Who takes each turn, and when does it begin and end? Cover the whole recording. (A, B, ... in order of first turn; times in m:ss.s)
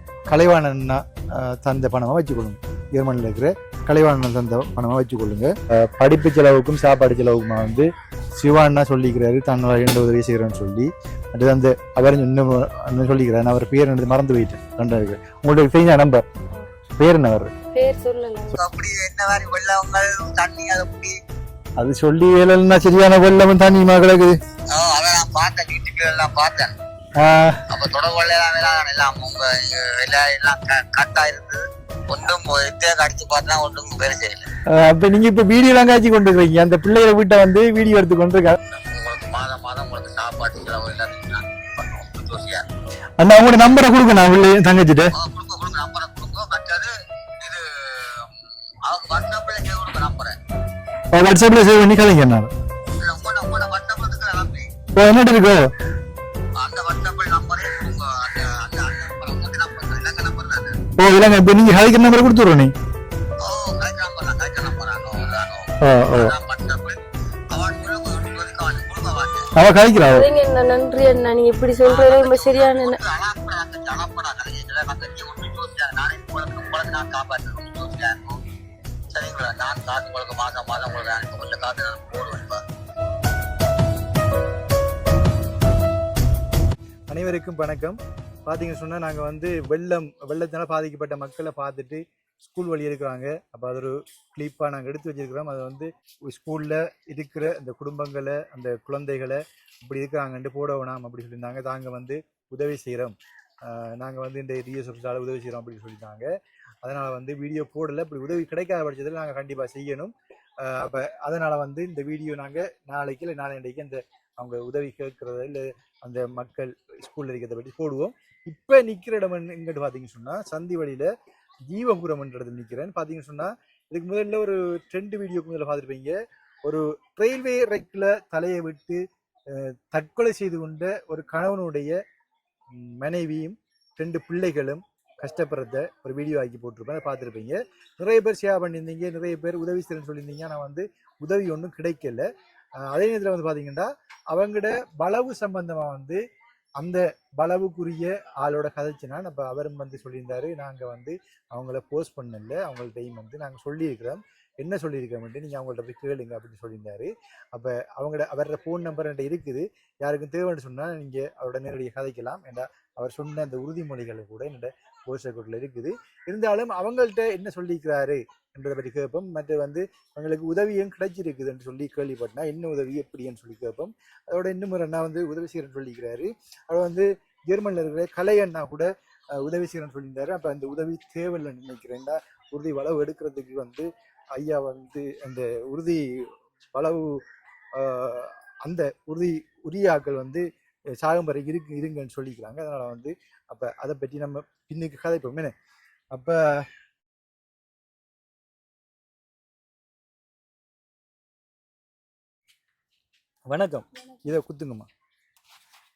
0:00.3-0:16.2 A
0:17.0-0:17.5 A
0:17.7-0:18.6 B
0:18.5-0:21.1 C
0:21.8-0:24.4 A
0:24.7-0:26.7 C
0:27.2-0:27.6 A
0:27.7-0:34.5 C
0:34.7-0:38.6 A
0:38.6-0:42.6 C
0:43.2-0:45.1 A
0:45.1-0:46.9 C
0:47.4-0:48.3 C
0:48.9-0:50.4 C
0:51.1-0:52.5 A
0:53.0-0:54.7 C
0:54.9-0:55.7 A
0:56.6-1:00.7 C
1:01.0-1:02.7 A
1:03.4-1:07.0 C
1:05.8-1:06.3 A
1:07.5-1:09.5 C
1:09.6-1:10.2 A
1:10.0-1:13.0 B
1:11.8-1:18.4 C
1:19.1-1:22.6 C
1:27.1-1:46.3 A
1:46.8-2:01.1 A
2:01.7-2:11.9 A
2:12.7-2:22.3 A
2:22.8-2:26.2 A
2:26.8-3:07.2 A
3:07.7-3:15.5 A
3:16.1-3:16.7 A
3:23.5-3:24.9 A